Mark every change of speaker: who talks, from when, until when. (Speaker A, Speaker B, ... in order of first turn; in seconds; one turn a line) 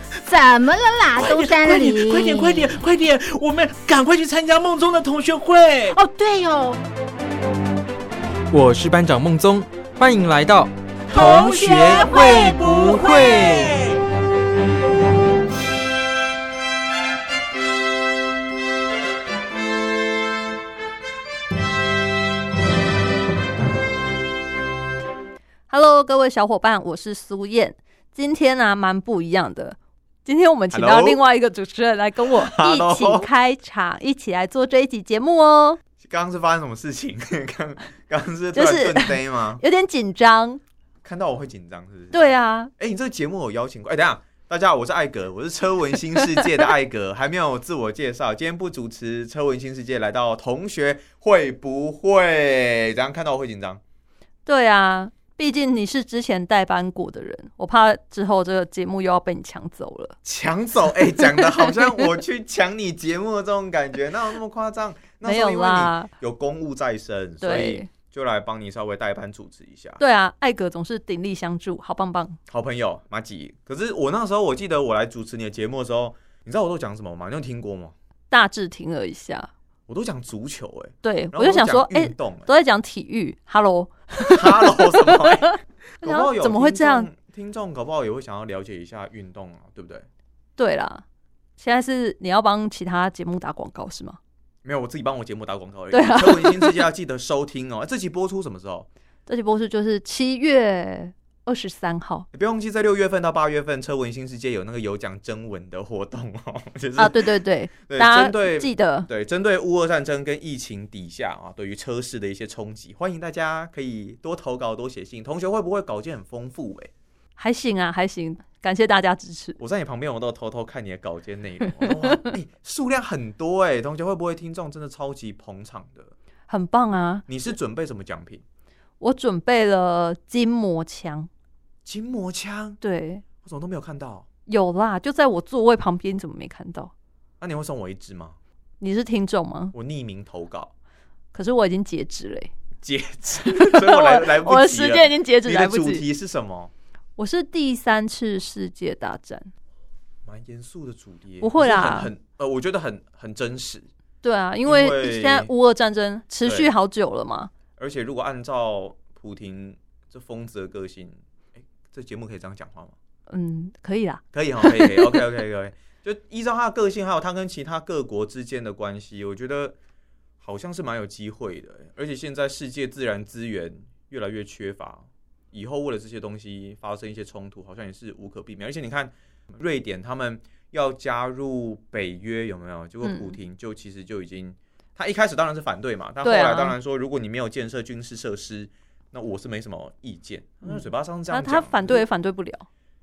Speaker A: 0.2-2.8
Speaker B: 1.1-6.0
Speaker A: 5.9-6.8
Speaker C: 8.5-10.7
Speaker B: 11.1-13.9
Speaker A: 11.1-13.7
Speaker C: 11.7-13.7
Speaker D: 25.7-35.8
Speaker E: 30.7-31.2
Speaker E: 32.3-33.3
Speaker E: 36.0-39.6
Speaker D: 38.5-40.6
Speaker E: 41.0-42.3
Speaker D: 42.1-42.7
Speaker E: 42.8-53.8
Speaker D: 54.5-60.1
Speaker E: 60.2-70.0
Speaker D: 61.2-62.1
Speaker D: 65.2-66.1
Speaker D: 67.4-67.9
Speaker D: 70.0-72.4
Speaker E: 72.5-77.9
Speaker D: 78.3-79.5
Speaker E: 79.9-82.5
Speaker D: 81.0-87.1
Speaker E: 84.2-90.0
Speaker D: 90.6-91.0
Speaker D: 91.6-94.2
Speaker E: 94.6-98.9
Speaker D: 95.9-96.8
Speaker D: 99.3-102.3
Speaker E: 102.3-107.2
Speaker D: 107.0-109.1
Speaker E: 107.8-116.9
Speaker D: 117.4-119.6
Speaker E: 119.6-126.1
Speaker D: 121.7-122.3
Speaker D: 126.5-127.2
Speaker E: 127.3-128.4
Speaker D: 129.0-131.3
Speaker E: 131.8-132.8
Speaker D: 132.8-133.2
Speaker E: 133.4-134.2
Speaker D: 134.5-136.9
Speaker E: 137.4-138.4
Speaker D: 138.8-139.7
Speaker E: 139.7-140.7
Speaker D: 141.3-142.5
Speaker E: 142.8-146.7
Speaker D: 143.4-146.0
Speaker D: 147.2-149.5
Speaker E: 150.2-153.9
Speaker D: 151.4-152.1
Speaker D: 154.2-157.5
Speaker E: 154.6-155.5
Speaker E: 156.4-156.7
Speaker E: 157.8-162.9
Speaker D: 163.3-165.3
Speaker E: 164.3-169.7
Speaker E: 170.4-192.1
Speaker D: 183.0-183.4
Speaker D: 186.2-186.8
Speaker D: 190.6-192.7